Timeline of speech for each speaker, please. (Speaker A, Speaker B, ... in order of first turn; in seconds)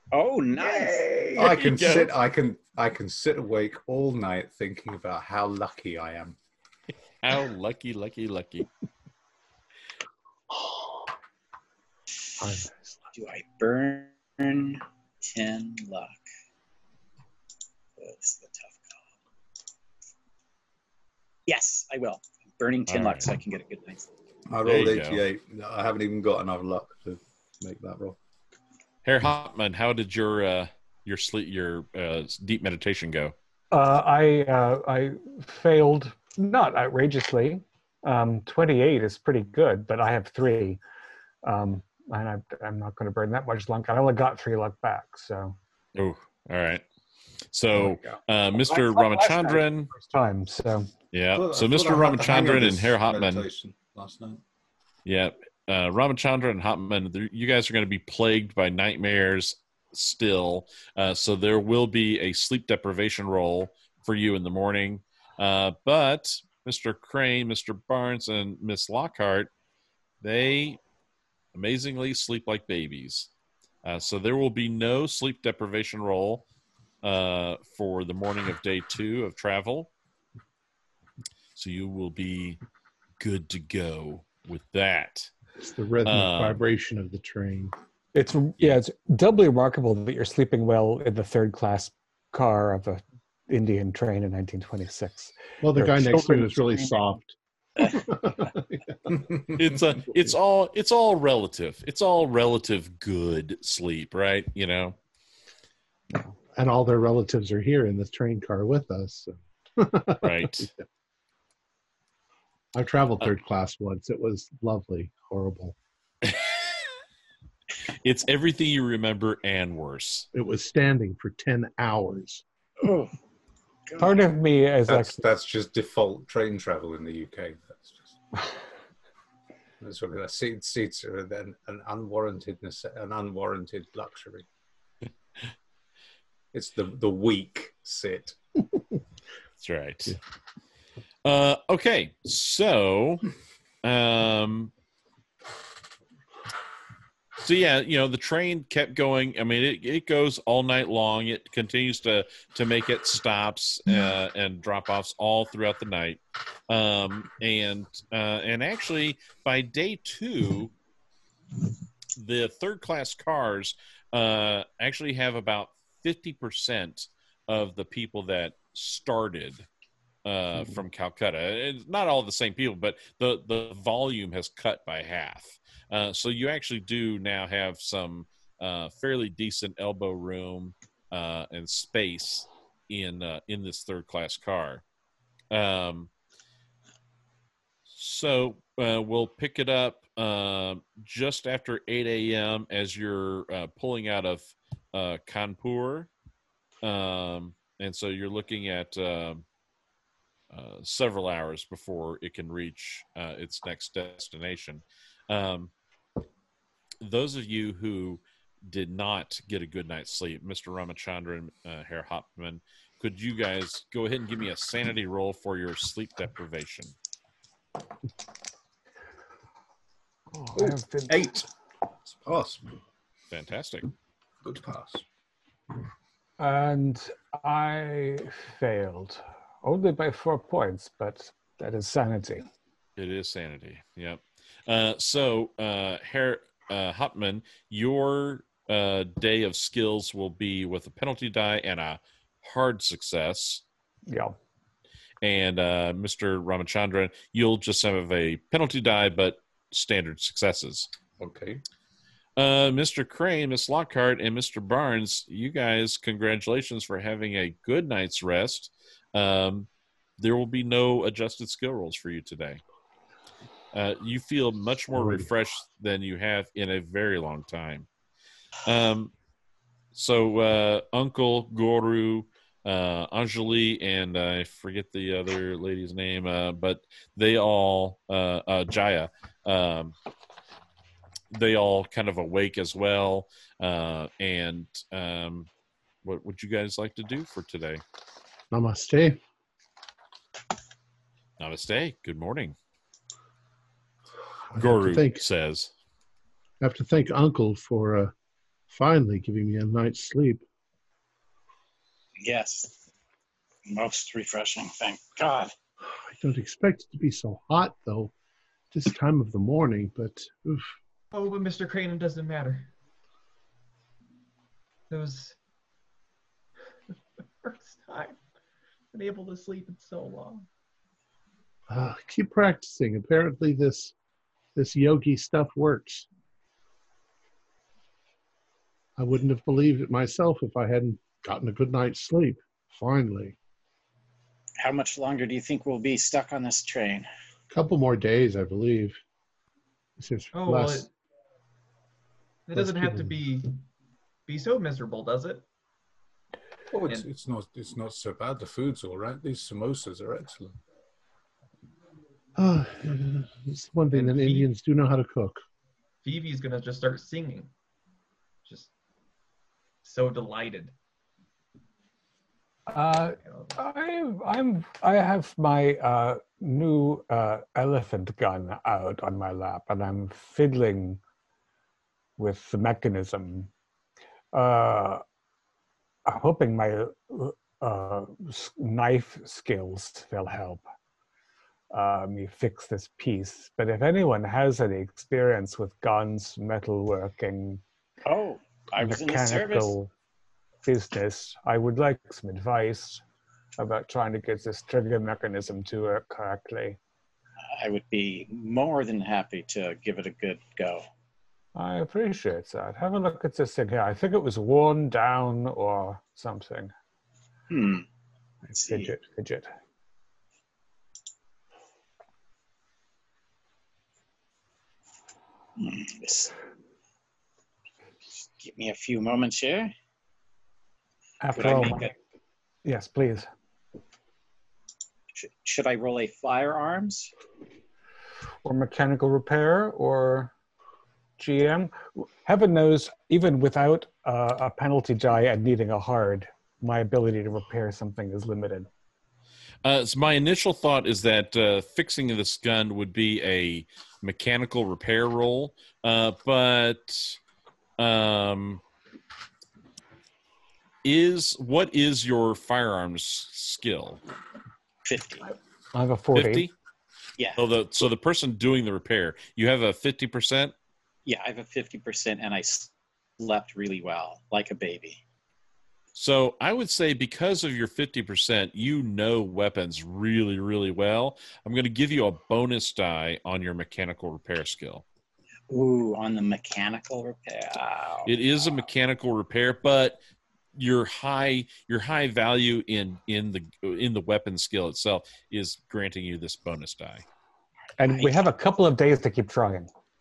Speaker A: 0.1-1.1, 13.2-16.2, 18.0-18.9, 21.5-24.1, 122.8-123.1, 302.2-302.8, 303.7-305.5, 334.6-337.1, 388.1-389.8, 397.5-400.9, 407.5-407.9, 408.6-408.9, 415.6-416.4, 418.1-419.7, 421.4-421.9, 425.2-427.1, 454.9-455.3, 461.1-465.0, 475.5-478.1, 487.9-488.2
Speaker B: 0.6-1.6, 311.1-312.7, 314.9-315.4, 317.4-318.2, 318.9-320.5, 340.3-340.9, 342.5-343.6, 344.3-345.4, 353.9-354.5, 356.0-357.5, 358.4-358.7, 359.8-360.7, 363.2-363.5
Speaker C: 1.4-6.4, 24.5-28.2, 51.3-54.4, 124.9-128.4, 129.8-134.5, 136.5-138.4, 220.6-221.5, 222.1-222.8, 224.4-225.0, 251.2-251.6, 346.7-350.6
Speaker D: 1.4-2.1, 7.2-8.7, 22.9-23.3, 24.6-25.2, 29.0-33.4, 46.0-46.8, 47.5-49.9, 51.1-53.5, 55.1-69.5, 70.2-70.8, 71.5-73.3, 73.8-76.5, 77.0-79.9, 81.6-82.6, 83.2-85.3, 86.0-86.6, 99.5-105.0, 110.2-110.7, 116.2-116.7, 117.9-120.3, 139.6-140.2, 141.2-143.2, 143.8-144.7, 147.4-160.7, 162.2-169.7, 170.2-184.8, 185.5-186.1, 187.9-196.1, 196.8-199.4, 200.5-205.7, 207.0-216.9, 223.3-223.9, 233.0-243.6, 245.2-250.9, 252.4-262.6, 263.7-267.9, 268.7-269.1, 269.9-279.9, 281.3-285.5, 286.0-287.8, 291.4-292.6, 294.6-295.7, 439.6-447.2, 447.8-448.6, 450.8-454.0, 456.1-456.5, 457.4-460.5, 465.9-474.9, 478.1-480.0, 480.6-487.1
Speaker E: 10.5-11.0, 12.4-13.0, 85.6-87.8, 95.6-99.2, 106.5-110.8, 112.7-115.8, 120.3-122.4, 264.9-265.3, 288.5-289.2, 294.5-295.2, 296.6-298.1, 298.7-300.4, 305.9-308.1, 308.7-310.7, 321.7-323.9, 324.6-326.1, 329.0-333.4, 337.5-339.0, 340.0-340.9, 342.6-343.1, 352.4-355.4
Speaker F: 33.7-40.8, 41.4-45.6, 47.8-50.9, 88.2-96.3, 124.0-125.2, 220.3-221.4, 226.4-232.5, 244.1-244.4, 362.7-371.0, 372.2-373.5, 374.3-375.0, 376.1-380.6, 381.7-387.6, 388.8-389.9, 390.6-393.0, 393.6-396.8, 401.6-406.7, 408.5-409.5, 421.2-421.9, 422.6-423.3, 428.4-430.3, 431.2-438.7, 455.7-456.5, 487.8-489.7